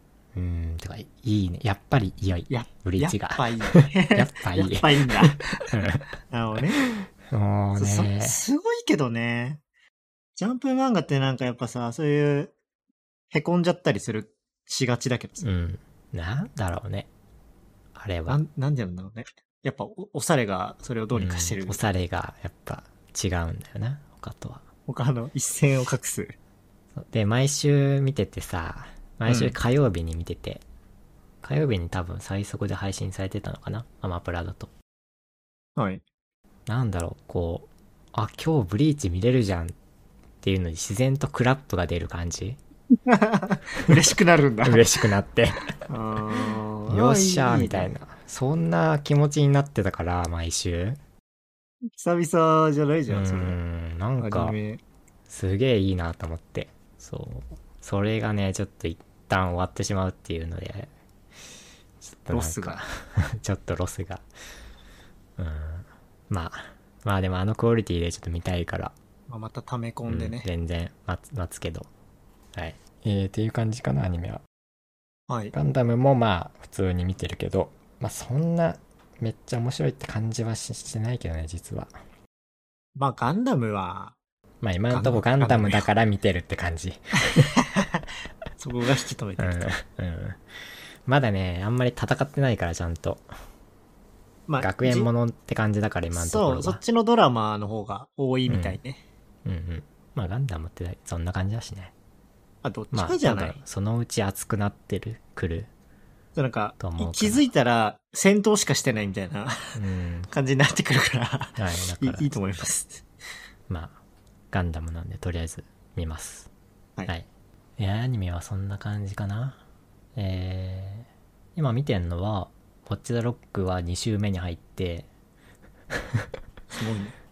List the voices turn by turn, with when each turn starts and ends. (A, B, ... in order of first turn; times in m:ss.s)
0:00.3-0:06.0 A
0:02.5-0:06.8 B
0:06.8-0:08.4 A
0:07.8-0:09.6 B
0:10.4-0:12.5 B
0:13.3-0:15.4 B
0:15.4-0:17.1 A
0:17.9-0:18.4 A
0:18.3-0:21.8 B
0:21.1-0:24.6 A
0:24.9-0:26.3 B
0:27.0-0:30.6 A
0:29.2-0:29.5 B
0:31.4-0:34.7 A
0:35.8-0:36.0 B
0:36.7-0:39.7 A
0:40.4-0:42.6 A
0:43.0-0:44.9 B
0:44.6-0:45.7 A
0:45.9-0:47.9 B
0:46.9-0:51.0 A
0:51.9-0:53.6 B
0:53.1-0:54.6 A
0:54.2-0:54.8 B
0:55.3-1:00.9 A
1:02.0-1:04.2 A
1:02.3-1:02.8 B
1:05.4-1:08.9 A
1:09.3-1:10.5 B
1:10.1-1:11.9 A
1:12.5-1:14.4 A
1:15.3-1:15.5 B
1:15.5-1:21.9 A
1:23.0-1:24.2 B
1:24.6-1:27.5 A
1:24.9-1:25.9 B
1:27.5-1:28.0 B
1:28.6-1:29.6 B
1:29.4-1:30.4 A
1:31.0-1:33.2 A
1:34.5-1:35.1 B
1:34.6-1:36.8 A
1:36.1-1:39.0 B
1:38.5-1:38.8 A
1:39.4-1:41.9 A
1:42.6-1:43.6 B
1:42.9-1:45.7 A
1:46.3-1:53.0 B
1:46.8-1:47.4 A
1:49.7-1:50.3 A
1:51.6-1:52.7 A
1:53.7-1:54.0 A
1:54.5-1:56.5 A
1:57.8-1:59.6 A
2:00.2-2:05.1 A
2:06.7-2:07.2 B